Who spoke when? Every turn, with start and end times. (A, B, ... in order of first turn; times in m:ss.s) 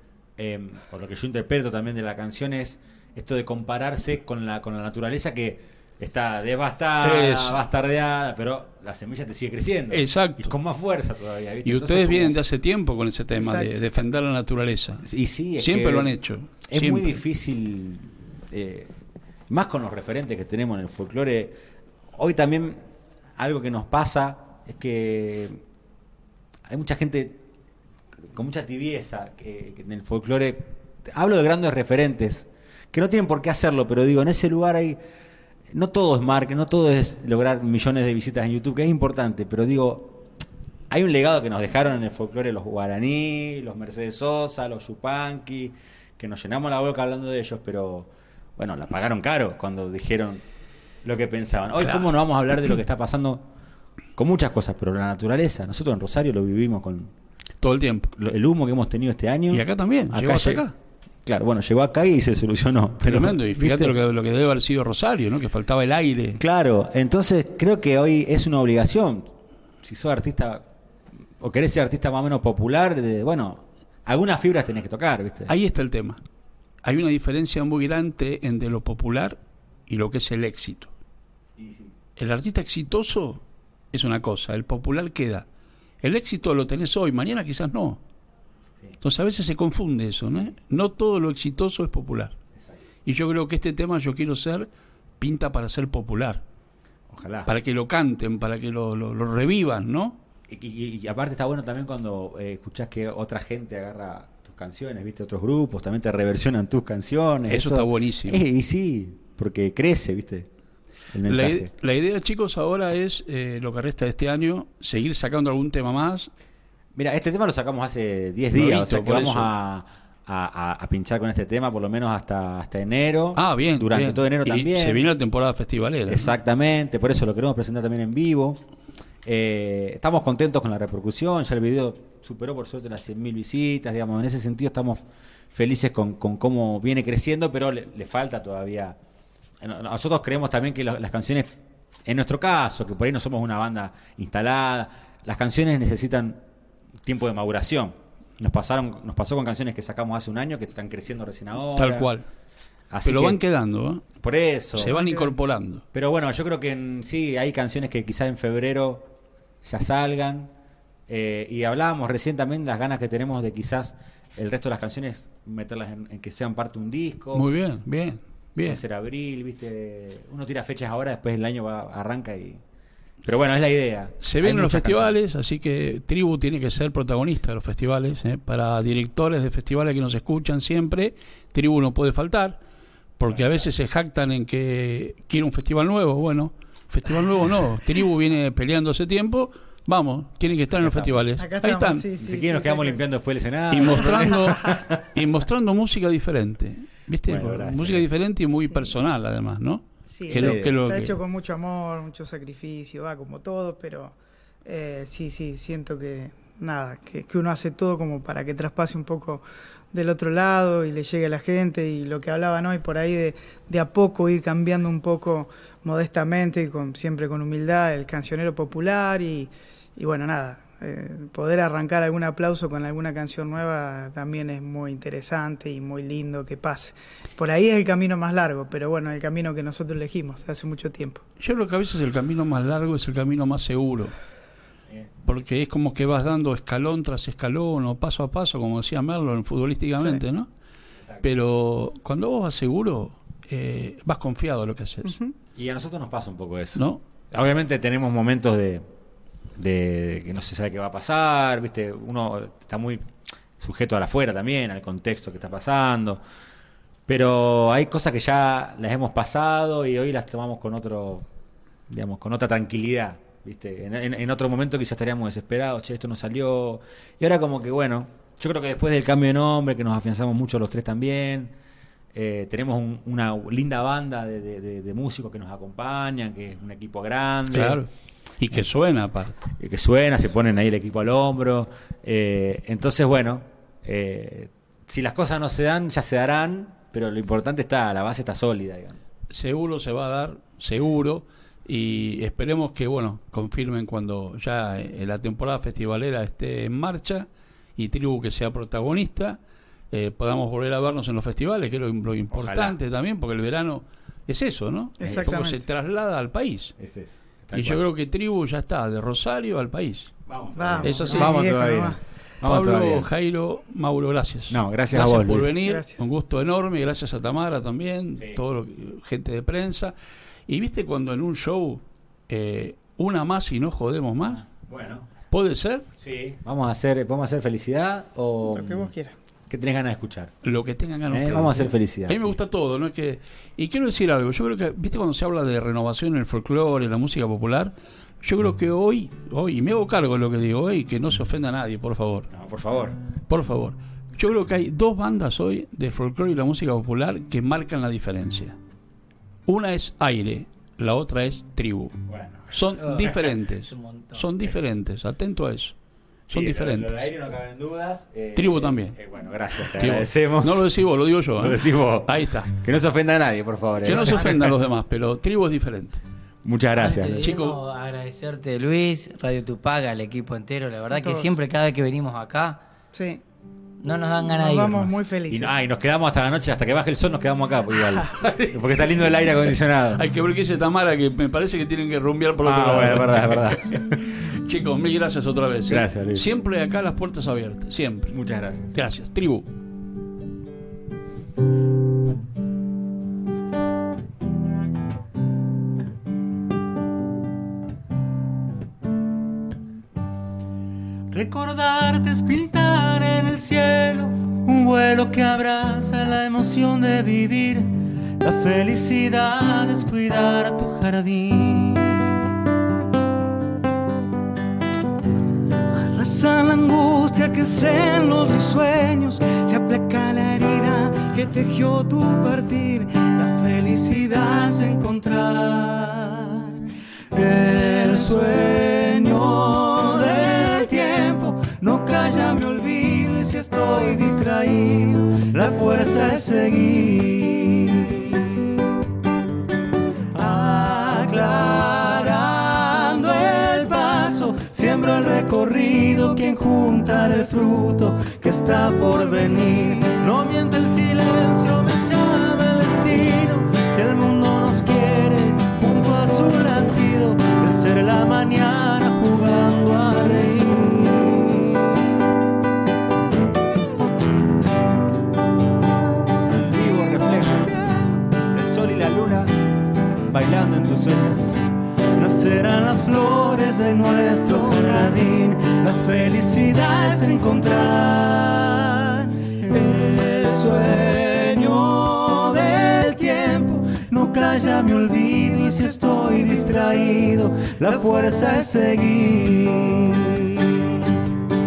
0:00.4-0:12.4 A
0:07.0-0:07.6 B
0:09.9-0:10.5 B
0:11.6-0:15.0 B
0:13.4-0:13.9 C
0:15.0-0:16.1 A
0:15.6-0:17.2 B
0:16.7-0:18.9 A
0:19.5-0:21.6 A
0:22.1-0:22.8 A
0:23.4-0:25.6 A
0:26.7-0:27.4 A
0:28.3-0:35.0 A
0:35.7-0:40.2 A
0:40.9-0:50.4 A
0:51.0-0:53.4 A
0:54.2-0:57.1 A
0:57.6-0:58.1 B
0:58.2-1:00.6 A
0:59.5-1:00.7 B
1:01.2-1:03.9 A
1:03.0-1:06.4 B
1:06.4-1:10.6 A
1:11.4-1:15.5 A
1:15.5-1:16.2 B
1:16.8-1:20.9 B
1:21.6-1:21.9 A
1:22.2-1:25.4 B
1:26.0-1:28.0 B
1:29.0-1:32.4 B
1:33.0-1:34.7 B
1:35.2-1:36.4 B
1:37.1-1:37.5 A
1:37.5-1:40.2 B
1:40.5-1:50.5 A
1:47.5-1:48.4 B
1:51.1-1:51.7 A
1:51.2-1:56.3 B
1:56.9-2:05.0 A
1:58.5-1:59.5 B
2:03.4-2:06.3 B
2:06.0-2:08.6 A
2:09.2-2:19.0 A
2:19.6-2:26.4 A
2:27.0-2:32.1 A
2:31.7-2:32.2 B
2:32.9-2:33.4 A
2:33.0-2:34.0 B
2:34.2-2:35.1 A
2:34.8-2:35.8 B
2:34.9-2:35.3 C
2:35.9-2:39.1 A
2:39.6-2:40.5 A
2:41.1-2:47.5 A
2:47.3-2:48.8 B
2:48.6-2:52.6 A
2:53.2-2:55.2 A
2:54.2-3:02.6 B
3:03.2-3:12.0 B
3:03.3-3:03.7 A
3:10.8-3:11.2 A
3:11.4-3:13.0 C
3:12.2-3:15.1 A
3:13.7-3:21.2 B
3:17.2-3:18.1 A
3:18.7-3:18.9 C
3:20.1-3:51.2 C
3:20.3-3:20.7 A
3:51.4-3:54.1 B
3:55.2-4:00.5 B
4:01.0-4:01.3 A
4:01.2-4:05.2 B
4:05.0-4:05.3 C
4:05.6-4:08.8 A
4:06.8-4:07.0 B
4:09.6-4:13.1 A
4:13.6-4:16.2 A
4:17.1-4:21.2 A
4:21.9-4:31.5 A
4:32.1-4:37.8 A
4:37.5-4:37.9 B
4:38.4-4:39.4 B
4:39.6-4:49.0 A
4:49.3-4:59.4 B
4:59.9-5:06.8 B
5:02.3-5:02.8 A
5:05.0-5:05.6 C
5:05.0-5:05.4 A
5:06.8-5:07.8 A
5:07.5-5:10.1 B
5:10.2-5:13.1 A
5:10.6-5:12.0 C
5:10.8-5:11.4 B
5:12.4-5:19.9 B
5:14.5-5:15.6 A
5:15.6-5:16.1 C
5:20.5-5:24.4 B
5:24.5-5:25.1 A
5:25.3-5:25.8 B
5:26.0-5:28.9 A
5:28.4-5:29.1 C
5:29.5-5:30.3 A
5:30.4-5:42.3 B
5:31.1-5:32.4 A
5:42.3-5:43.0 A
5:43.3-5:48.6 B
5:49.5-5:51.9 B
5:52.1-5:53.3 A
5:52.5-5:55.7 B
5:52.8-5:54.3 D
5:56.3-5:56.9 B
5:56.3-6:00.6 A
5:58.4-5:59.0 B
5:59.6-6:02.5 B
6:01.4-6:04.5 A
6:03.8-6:06.0 B
6:06.4-6:07.3 A
6:06.8-6:12.6 D
6:07.2-6:07.6 B
6:10.9-6:11.4 C
6:12.9-6:13.2 C
6:13.8-6:15.0 D
6:14.2-6:15.6 C
6:15.3-6:20.1 A
6:18.1-6:19.2 B
6:19.9-6:28.2 B
6:22.4-6:24.0 A
6:25.7-6:26.3 A
6:28.1-6:28.8 A
6:28.7-6:29.4 B
6:41.1-6:52.0 E
6:55.7-7:18.6 E
7:20.1-7:41.6 E
7:46.3-7:47.6 A
7:46.5-7:47.8 E
7:48.3-7:49.3 A
7:50.1-7:51.4 A
7:52.0-8:11.0 E